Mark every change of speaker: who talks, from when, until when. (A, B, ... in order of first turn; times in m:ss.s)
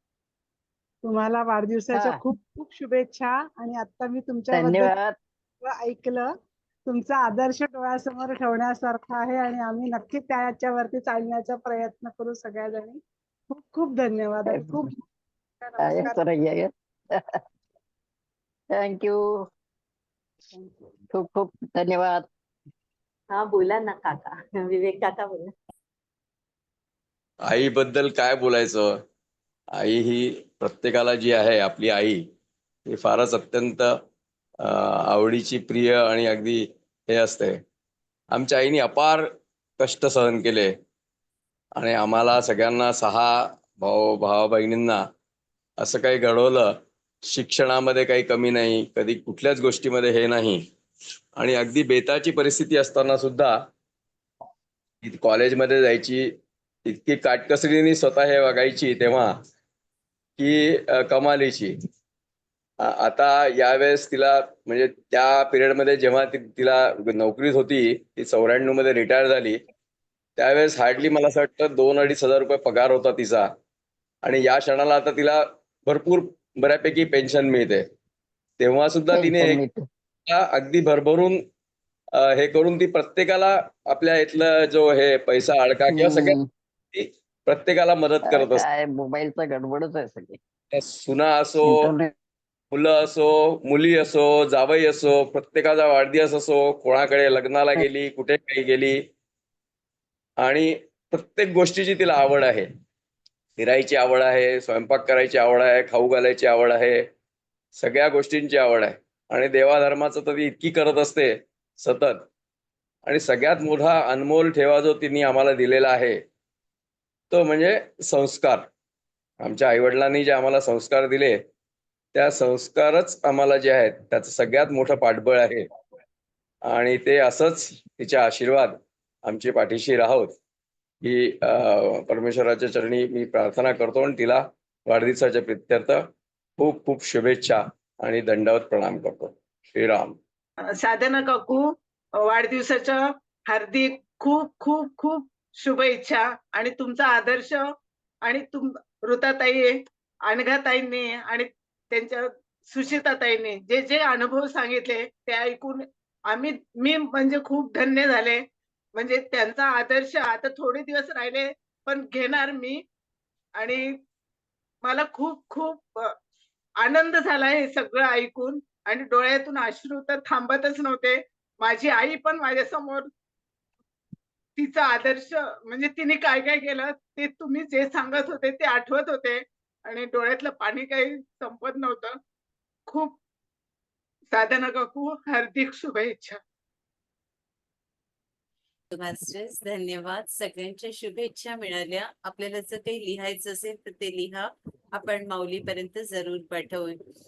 0:01.0-0:04.9 A
0:01.9-0:02.2 B
0:04.5-0:05.2 B
0:05.6-0:06.3 A
0:06.9-0:13.0 A
0:13.5-0:15.0 A
0:15.6-0:16.2 A
0:15.8-0:17.4 B
0:18.7-0:19.5 B
0:21.1-0:22.3 B
0:23.3-0:25.5 C
0:27.5-0:28.9 D
0:29.8-0:32.2 D
0:32.9-0:33.9 D
0:34.6-0:37.6 D
0:38.3-0:39.3 D
0:39.8-0:40.7 D
0:41.8-0:45.0 D
0:45.8-0:46.7 D
0:47.3-0:50.6 D
0:51.4-0:53.5 D
0:55.0-0:56.3 D
0:56.9-0:59.3 D
1:00.4-1:01.8 D
1:02.8-1:09.6 D
1:10.4-1:13.5 D
1:14.2-1:17.8 D
1:18.6-1:19.6 D
1:19.1-1:19.9 B
1:20.3-1:21.4 D
1:22.2-1:26.4 D
1:25.9-1:26.5 B
1:26.9-1:28.6 D
1:28.3-1:30.4 B
1:30.7-1:31.9 D
1:31.6-1:32.1 B
1:32.7-1:39.0 D
1:40.4-1:42.7 D
1:43.6-1:47.0 D
1:47.8-1:52.2 D
1:53.1-1:56.2 D
1:57.3-1:58.7 D
1:59.4-2:01.4 D
2:02.1-2:05.7 D
2:06.7-2:10.3 D
2:11.0-2:16.1 D
2:16.6-2:20.2 D
2:20.7-2:27.7 E
2:28.2-2:38.4 E
2:39.0-2:42.8 E
2:43.6-2:44.0 E
2:44.8-2:46.2 E
2:46.8-2:53.1 E
2:54.6-3:02.2 E
3:02.9-3:03.2 E
3:04.3-3:06.4 E
3:08.9-3:17.0 F